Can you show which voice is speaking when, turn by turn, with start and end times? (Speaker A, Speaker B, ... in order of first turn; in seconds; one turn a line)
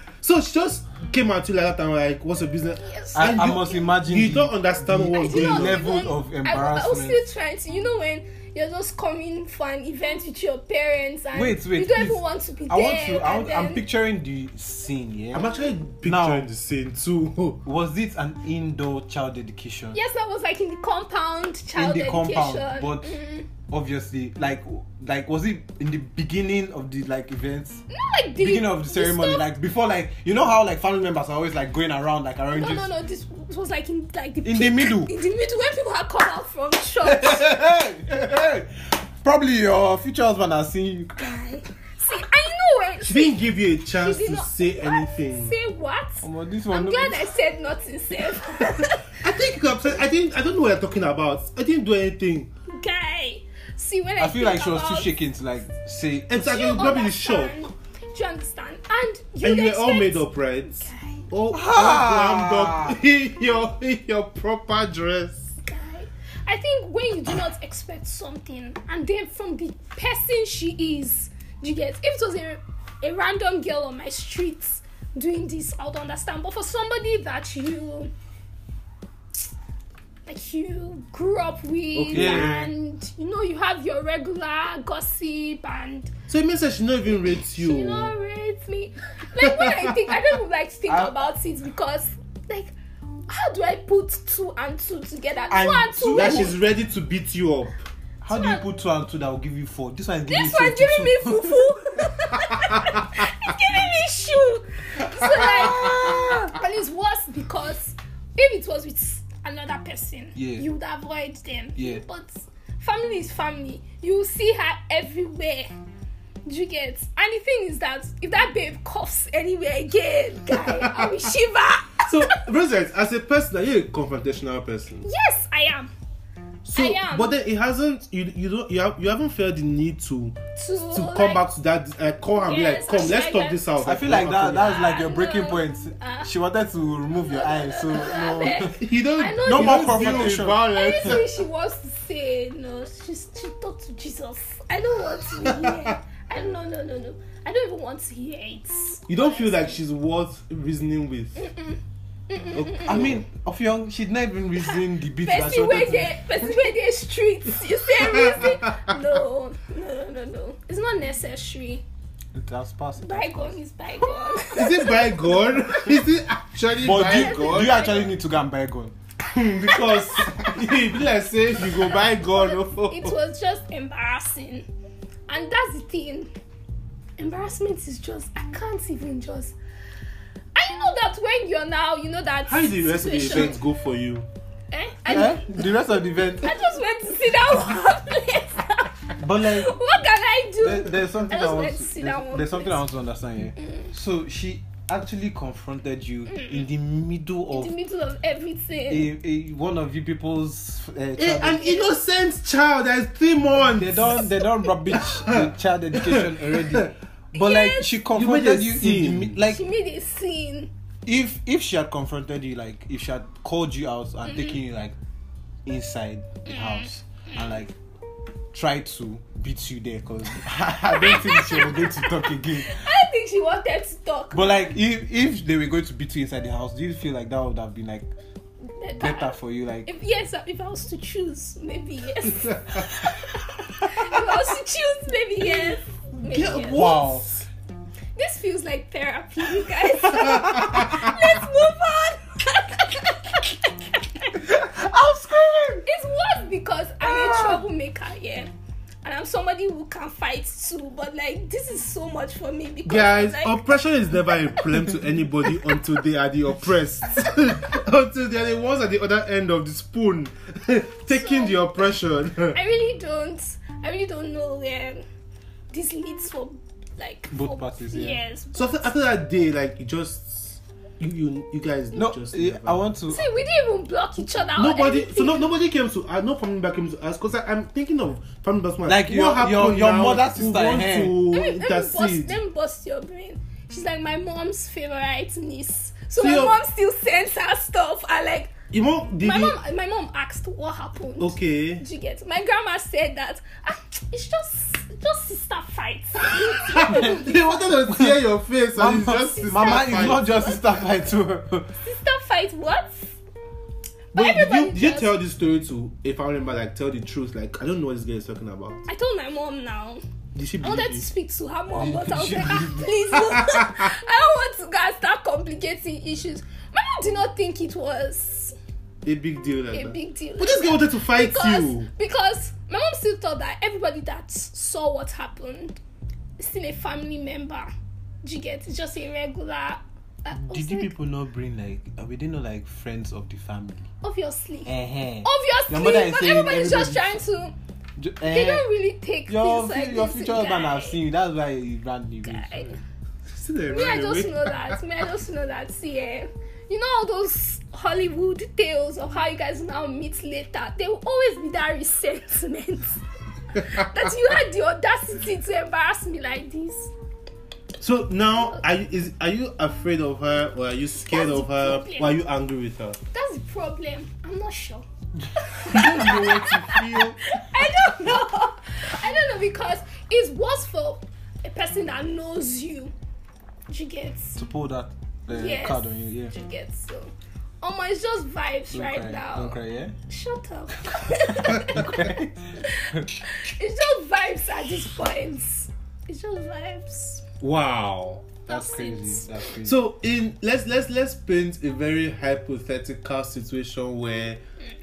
Speaker A: 0.2-5.8
Speaker B: 2.8-3.8
Speaker C: 3.1-7.2
Speaker B: 5.1-13.8
Speaker C: 11.3-15.5
Speaker A: 15.3-17.6
Speaker C: 16.0-16.5
Speaker C: 17.6-20.0
Speaker B: 19.9-23.5
Speaker C: 21.7-27.8
Speaker B: 27.9-29.4
Speaker C: 28.4-32.9
Speaker B: 32.5-37.6
Speaker C: 34.4-35.1
Speaker C: 37.0-41.2
Speaker B: 41.2-43.4
Speaker A: 43.0-45.5
Speaker B: 44.0-49.2
Speaker C: 46.2-47.3
Speaker A: 49.2-52.5
Speaker B: 52.7-55.1
Speaker C: 54.2-56.3
Speaker A: 56.3-57.6
Speaker B: 56.3-61.2
Speaker A: 59.4-65.5
Speaker C: 61.5-63.0
Speaker B: 65.6-78.1
Speaker B: 80.2-86.1
Speaker A: 81.9-82.6
Speaker C: 82.1-82.7
Speaker A: 86.3-88.1
Speaker B: 87.4-92.7
Speaker A: 89.4-90.0
Speaker C: 90.9-91.2
Speaker B: 93.3-96.5
Speaker C: 95.5-96.5
Speaker A: 96.1-97.8
Speaker C: 98.2-101.5
Speaker B: 98.3-98.6
Speaker B: 100.3-115.7
Speaker C: 105.4-106.1
Speaker C: 110.3-110.7
Speaker C: 111.8-112.0
Speaker B: 116.5-122.4
Speaker A: 120.5-121.3
Speaker A: 122.0-125.1
Speaker B: 125.0-125.9
Speaker A: 126.6-130.4
Speaker B: 126.7-127.3
Speaker B: 130.6-131.4
Speaker A: 130.9-134.7
Speaker B: 132.3-133.6
Speaker C: 133.8-138.8
Speaker B: 134.5-136.3
Speaker B: 137.1-149.8
Speaker A: 138.8-141.3
Speaker C: 139.4-141.1
Speaker A: 145.3-145.9
Speaker A: 149.1-151.4
Speaker B: 151.4-153.2
Speaker A: 152.5-153.2
Speaker C: 152.8-156.1
Speaker B: 154.6-161.8
Speaker A: 158.0-158.6
Speaker C: 162.3-164.4
Speaker B: 163.0-165.2
Speaker A: 164.5-167.8
Speaker C: 166.8-168.9
Speaker B: 167.0-168.1
Speaker A: 169.3-173.2
Speaker B: 169.6-170.4
Speaker B: 171.8-174.7
Speaker B: 175.3-176.3
Speaker B: 177.2-179.6
Speaker B: 180.5-183.6
Speaker A: 182.4-184.3
Speaker B: 184.7-185.6
Speaker C: 185.1-186.5
Speaker B: 186.4-192.8
Speaker C: 189.2-189.7
Speaker C: 190.6-197.7
Speaker B: 193.6-193.9
Speaker B: 196.3-196.6
Speaker B: 197.5-199.1
Speaker C: 198.9-201.6
Speaker A: 201.2-204.3
Speaker B: 201.5-201.9
Speaker C: 203.7-209.6
Speaker A: 205.1-206.9
Speaker B: 207.3-207.9
Speaker A: 208.1-209.4
Speaker B: 209.4-210.7
Speaker C: 211.1-214.9
Speaker B: 214.3-214.6
Speaker C: 215.7-217.8
Speaker B: 216.4-217.5
Speaker C: 218.5-222.8
Speaker B: 220.8-224.8
Speaker C: 224.3-228.1
Speaker B: 228.8-236.9
Speaker C: 229.0-229.9
Speaker A: 236.3-237.4
Speaker C: 236.6-237.4
Speaker B: 238.2-244.4
Speaker C: 244.4-245.9
Speaker B: 245.8-248.5
Speaker C: 247.0-247.6
Speaker B: 249.0-253.7
Speaker A: 252.8-262.6
Speaker B: 261.1-261.6
Speaker B: 262.5-265.0
Speaker B: 265.7-268.9
Speaker C: 267.3-268.2
Speaker A: 268.5-272.8
Speaker C: 271.9-273.2
Speaker B: 273.1-275.4
Speaker A: 274.6-282.4
Speaker C: 278.9-281.2
Speaker B: 281.3-288.5
Speaker A: 286.2-286.6
Speaker A: 288.7-289.6
Speaker B: 289.2-297.6
Speaker A: 291.2-291.8
Speaker A: 296.4-300.3
Speaker C: 296.8-297.1
Speaker C: 297.9-298.2
Speaker C: 298.7-301.7
Speaker B: 298.9-300.9
Speaker B: 301.8-303.2
Speaker B: 304.1-305.1
Speaker A: 304.1-308.8
Speaker B: 308.9-310.0
Speaker A: 310.4-311.0
Speaker B: 310.6-318.5
Speaker C: 311.7-312.9
Speaker A: 313.3-313.8
Speaker A: 319.0-321.9
Speaker B: 319.7-325.8
Speaker B: 326.4-327.7
Speaker B: 328.2-330.9
Speaker C: 330.3-333.9
Speaker B: 334.0-334.7
Speaker C: 334.6-337.2
Speaker B: 335.2-337.5
Speaker C: 338.0-338.7
Speaker B: 338.2-341.0
Speaker C: 339.3-342.6
Speaker B: 342.2-342.8
Speaker A: 343.3-344.8
Speaker B: 343.7-356.9
Speaker A: 357.8-363.0
Speaker B: 361.1-362.2
Speaker B: 363.1-372.9
Speaker A: 365.7-367.2
Speaker B: 373.7-374.4
Speaker C: 374.4-376.3
Speaker B: 375.3-382.1
Speaker C: 378.7-379.9
Speaker C: 381.4-383.2
Speaker B: 382.6-387.2
Speaker A: 387.4-388.3
Speaker B: 388.5-389.4
Speaker C: 388.5-389.8
Speaker A: 389.6-394.4